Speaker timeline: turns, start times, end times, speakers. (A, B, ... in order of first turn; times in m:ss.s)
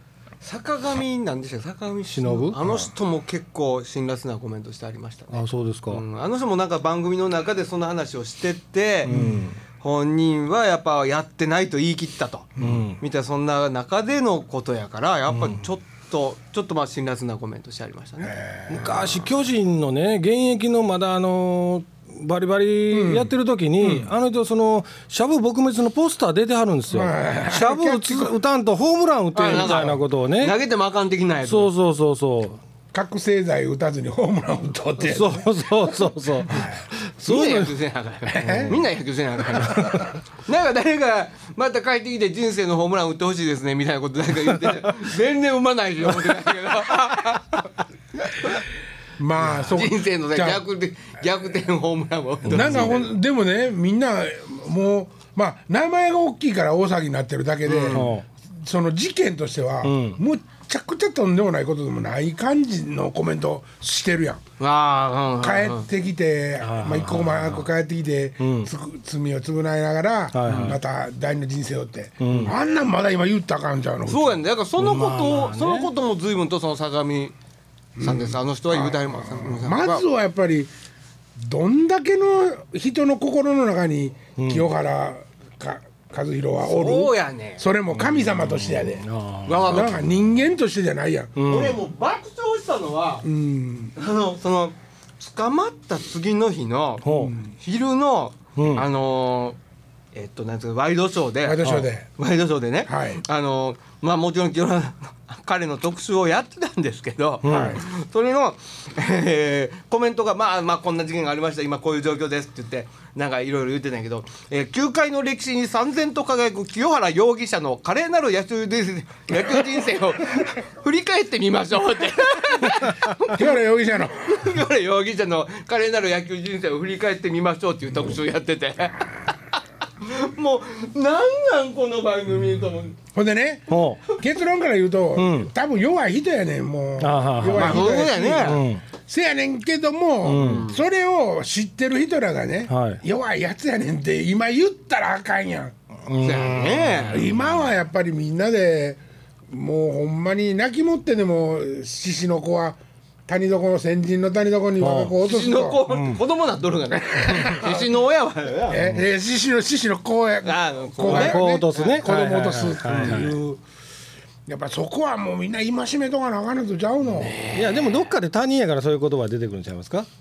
0:00.4-0:09.1 A
0:02.1-0:02.6 B
0:02.6-0:02.9 C
0:05.3-0:06.0 B
0:09.1-0:09.6 B
0:09.1-0:09.5 C
0:09.8-0:18.4 A
0:12.6-0:12.9 C
0:12.6-0:13.0 B
0:15.3-0:15.6 B
0:18.2-0:19.3 C
0:18.7-0:30.6 B
0:22.9-0:24.1 C
0:26.9-0:28.4 C
0:29.4-0:31.7 A
0:29.5-0:30.0 C
0:31.5-0:32.6 B
0:32.9-0:35.6 C
0:35.0-0:37.7 B
0:36.4-0:36.9 C
0:37.2-0:48.6 A
0:38.3-0:38.8 C
0:38.5-0:38.8 B
0:49.2-0:50.6 C
0:49.4-0:53.1 A
0:52.4-1:04.4 C
0:52.5-0:52.9 B
0:57.6-0:58.2 A
0:57.9-0:58.2 B
0:59.8-1:00.2 B
1:04.6-1:05.9 A
1:05.4-1:14.4 C
1:06.6-1:07.7 B
1:08.4-1:08.7 B
1:10.3-1:10.8 B
1:12.2-1:12.6 B
1:14.1-1:17.3 A
1:14.8-1:15.9 B
1:18.0-1:20.7 C
1:18.0-1:20.0 A
1:21.4-1:29.1 C
1:24.4-1:24.7 B
1:26.6-1:27.6 A
1:28.0-1:30.0 B
1:29.5-1:30.0 A
1:29.6-1:31.4 C
1:31.4-1:31.8 B
1:31.4-1:33.3 A
1:33.2-1:33.9 C
1:34.0-1:39.6 A
1:37.0-1:37.3 B
1:37.1-1:37.4 C
1:38.6-1:38.9 B
1:40.1-2:13.0 A
1:41.4-1:42.1 C
1:42.9-1:43.2 C
1:47.4-1:47.8 B
1:47.5-1:47.8 C
2:03.3-2:04.5 C
2:13.1-2:25.7 C
2:13.7-2:14.0 B
2:15.2-2:15.5 B
2:17.0-2:18.8 B
2:17.5-2:18.6 A
2:20.2-2:20.7 B
2:20.3-2:20.8 A
2:22.7-2:23.0 B
2:26.1-2:27.2 B
2:26.2-2:27.3 A
2:27.1-2:35.9 C
2:34.8-2:35.2 B
2:35.2-2:39.0 A
2:35.9-2:36.2 B
2:36.9-2:38.0 C
2:38.7-2:43.6 C
2:40.4-2:42.0 A
2:41.0-2:43.4 B
2:42.9-2:43.2 A
2:44.5-2:47.4 C
2:47.2-2:48.0 A
2:47.5-2:50.1 B